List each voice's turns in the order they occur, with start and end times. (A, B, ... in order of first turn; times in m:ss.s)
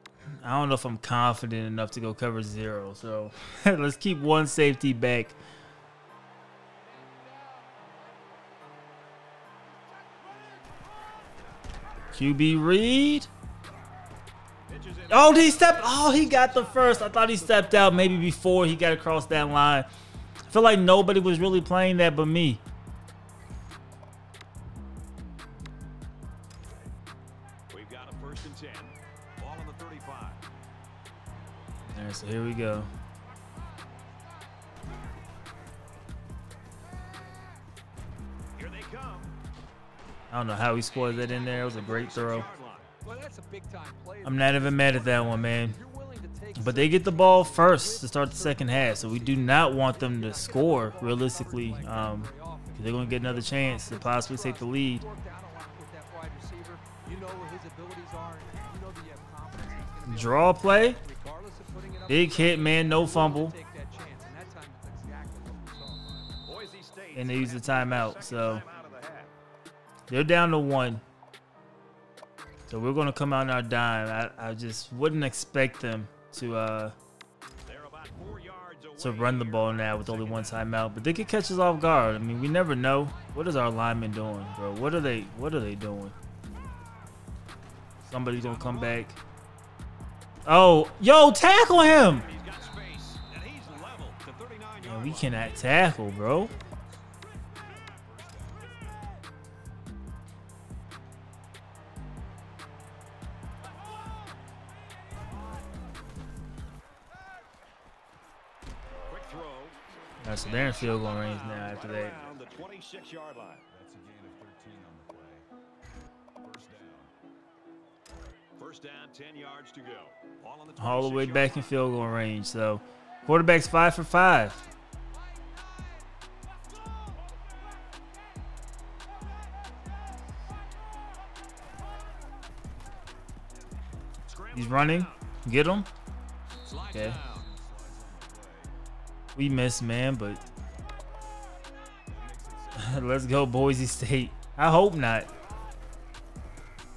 0:00.4-0:05.4 A
0:12.1-0:13.3 A
0:14.6-0:18.3 B
0:15.1-0:19.9 A
0:20.5-0:22.6 A
0:27.7-0:30.5 B
0:31.9-0:32.9 A
0:38.5-0:39.4 B
0:40.3-0:42.5 A
0:40.9-0:42.9 B
0:43.0-1:06.3 C
0:44.2-0:45.8 A
0:46.5-0:55.0 A
1:00.0-1:01.0 A
1:02.1-1:03.5 A
1:06.4-1:09.3 B
1:07.1-1:08.6 A
1:10.1-1:11.0 A
1:12.7-1:16.9 A
1:17.6-1:20.8 B
1:19.0-1:26.1 A
1:28.1-1:29.2 A
1:28.3-1:29.1 B
1:30.4-1:32.2 A
1:32.0-1:35.7 B
1:32.2-1:32.8 D
1:34.8-1:36.5 A
1:36.5-1:37.0 D
1:37.9-1:38.8 D
1:49.0-1:53.6 B
1:50.2-1:52.2 A
1:53.7-1:55.5 D
1:56.4-1:57.1 D
1:58.6-2:01.8 B
2:00.8-2:04.7 A
2:14.2-2:15.3 B
2:14.5-2:15.9 A
2:16.6-2:17.5 B
2:16.9-2:17.2 A
2:17.4-2:18.7 D
2:19.3-2:20.4 A
2:20.6-2:21.0 D
2:22.1-2:23.4 D
2:22.7-2:25.3 A